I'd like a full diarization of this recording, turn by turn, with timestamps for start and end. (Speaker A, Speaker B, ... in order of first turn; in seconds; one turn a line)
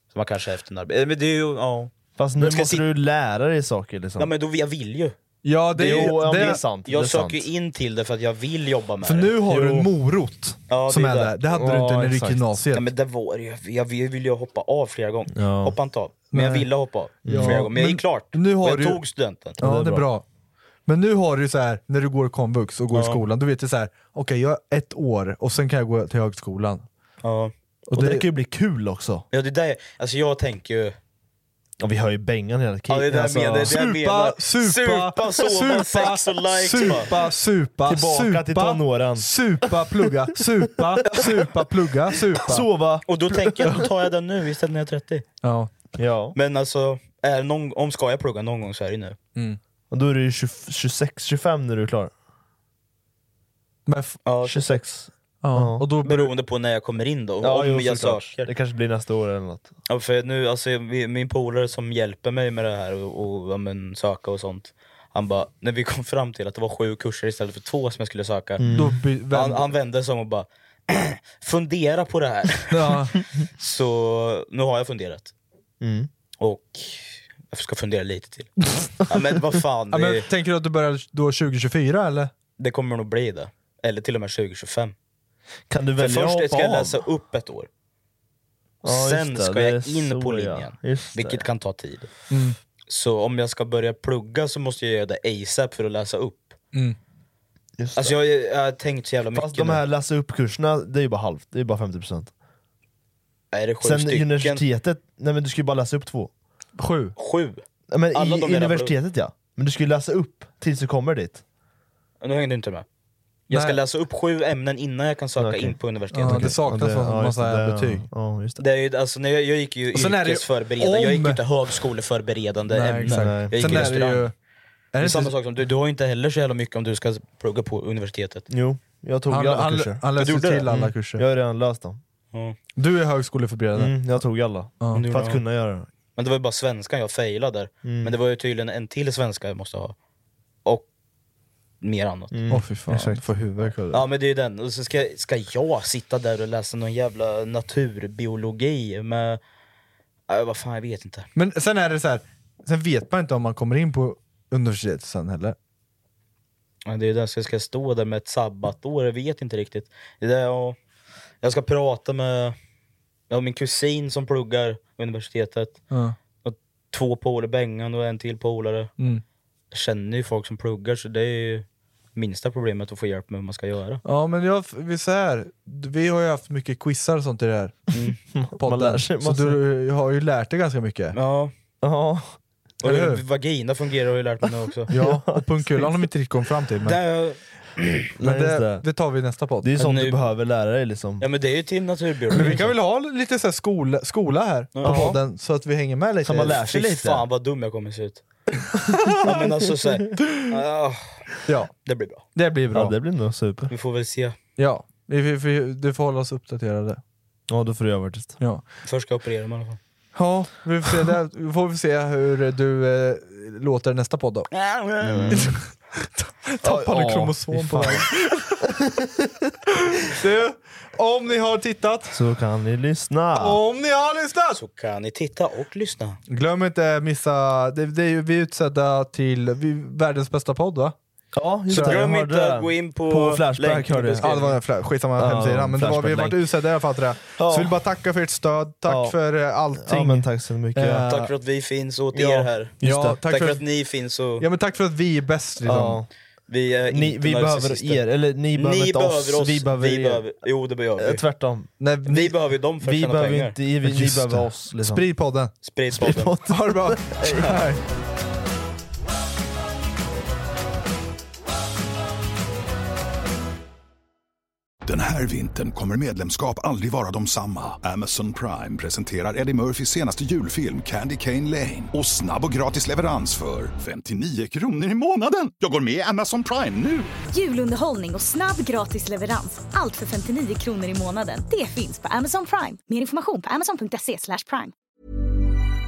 Speaker A: 0.1-2.9
Speaker B: 2.2-4.3
Speaker A: 4.2-5.2
Speaker C: 5.4-6.6
Speaker A: 5.8-9.7
Speaker B: 5.8-7.5
Speaker C: 9.0-12.9
Speaker A: 10.7-11.4
Speaker B: 11.5-12.4
Speaker A: 12.7-19.6
Speaker B: 15.3-15.8
Speaker C: 16.3-16.7
Speaker B: 17.2-17.6
Speaker C: 17.3-19.0
Speaker C: 19.6-20.2
Speaker B: 19.6-20.1
Speaker C: 20.9-26.9
Speaker A: 22.9-23.2
Speaker A: 27.2-27.5
Speaker C: 27.9-28.2
Speaker B: 27.9-29.2
Speaker A: 29.3-31.0
Speaker B: 31.8-33.7
Speaker A: 32.9-37.1
Speaker C: 33.6-42.7
Speaker B: 36.8-37.1
Speaker B: 37.9-39.3
Speaker B: 40.8-41.5
Speaker B: 42.3-43.8
Speaker A: 43.1-45.2
Speaker C: 45.4-45.7
Speaker B: 46.0-46.4
Speaker A: 46.4-49.2
Speaker B: 49.9-52.1
Speaker C: 53.9-54.2
Speaker A: 54.3-54.8
Speaker B: 54.5-55.9
Speaker C: 55.4-56.3
Speaker A: 56.0-58.5
Speaker B: 57.4-59.7
Speaker A: 59.9-68.7
Speaker B: 68.6-69.0
Speaker C: 68.7-69.7
Speaker A: 69.3-73.0
Speaker C: 72.7-73.2
Speaker A: 73.6-75.3
Speaker B: 75.8-76.1
Speaker A: 76.4-78.5
Speaker A: 79.0-80.3
Speaker C: 79.9-82.3
Speaker A: 82.6-84.9
Speaker B: 85.7-87.0
Speaker A: 86.0-87.7
Speaker B: 88.8-91.5
Speaker A: 88.8-92.1
Speaker C: 92.3-92.6
Speaker A: 92.9-96.6
Speaker B: 97.8-98.2
Speaker A: 98.0-99.8
Speaker B: 99.3-102.3
Speaker A: 103.5-104.6
Speaker B: 103.8-106.3
Speaker C: 106.8-107.2
Speaker A: 107.2-107.6
Speaker B: 107.9-111.4
Speaker A: 108.1-108.9
Speaker A: 112.2-112.8
Speaker A: 113.5-116.6
Speaker C: 113.5-113.8
Speaker B: 115.4-118.6
Speaker C: 116.1-118.1
Speaker A: 118.6-124.2
Speaker C: 119.9-121.4
Speaker C: 122.7-124.3
Speaker B: 123.1-123.9
Speaker C: 124.9-125.3
Speaker A: 125.0-128.5
Speaker B: 128.5-130.0
Speaker C: 129.3-131.2
Speaker A: 130.2-130.7
Speaker B: 130.7-132.0
Speaker C: 132.8-134.0
Speaker B: 133.8-135.9
Speaker C: 134.8-135.1
Speaker A: 134.9-135.4
Speaker A: 136.2-139.9
Speaker B: 137.8-138.1
Speaker A: 141.8-142.3
Speaker B: 142.3-144.0
Speaker C: 142.5-143.9
Speaker A: 143.9-149.4
Speaker A: 150.3-151.3
Speaker C: 151.3-155.6
Speaker A: 156.9-160.8
Speaker A: 161.4-162.6
Speaker A: 163.3-165.8
Speaker C: 165.9-166.2
Speaker A: 166.4-168.9
Speaker A: 169.7-171.7
Speaker A: 172.2-174.0
Speaker C: 174.1-177.8
Speaker B: 178.3-179.6
Speaker C: 178.6-181.2
Speaker A: 181.1-181.5
Speaker B: 181.8-182.4
Speaker C: 182.8-183.2
Speaker A: 182.8-184.9
Speaker C: 184.9-187.0
Speaker B: 184.9-185.9
Speaker A: 186.8-188.1
Speaker B: 188.2-188.8
Speaker C: 188.2-189.7
Speaker B: 189.6-191.2
Speaker A: 189.8-190.2
Speaker A: 191.2-192.7
Speaker C: 192.3-196.7
Speaker B: 192.3-192.6
Speaker A: 194.8-195.2
Speaker B: 194.8-195.2
Speaker B: 196.2-197.2
Speaker A: 196.5-198.2
Speaker A: 199.2-201.3
Speaker A: 201.8-202.2
Speaker C: 202.3-202.9
Speaker B: 202.7-203.7
Speaker A: 203.7-204.4
Speaker C: 204.6-207.0
Speaker B: 207.5-208.4
Speaker A: 208.9-209.8
Speaker C: 210.2-214.5
Speaker A: 214.5-215.5
Speaker B: 215.1-215.5
Speaker C: 215.3-218.5
Speaker B: 216.6-218.1
Speaker B: 218.6-219.3
Speaker C: 219.9-222.2
Speaker B: 222.1-223.6
Speaker C: 223.3-224.6
Speaker A: 224.5-226.2
Speaker C: 226.3-230.9
Speaker B: 231.3-234.3
Speaker C: 231.7-232.1
Speaker A: 231.7-234.6
Speaker C: 234.2-240.2
Speaker B: 235.2-236.4
Speaker B: 238.9-239.2
Speaker B: 239.8-241.1
Speaker C: 240.8-241.3
Speaker A: 241.1-244.4
Speaker B: 242.1-243.2
Speaker C: 242.8-243.6
Speaker C: 244.4-246.0
Speaker B: 245.6-246.1
Speaker A: 246.5-251.2
Speaker B: 246.9-250.3
Speaker B: 251.0-251.7
Speaker C: 251.8-252.3
Speaker A: 252.1-253.6
Speaker B: 252.8-255.0
Speaker C: 253.8-255.5
Speaker A: 255.6-256.4
Speaker B: 256.0-257.6
Speaker C: 256.5-257.8
Speaker D: 264.9-277.1
Speaker E: 277.3-284.7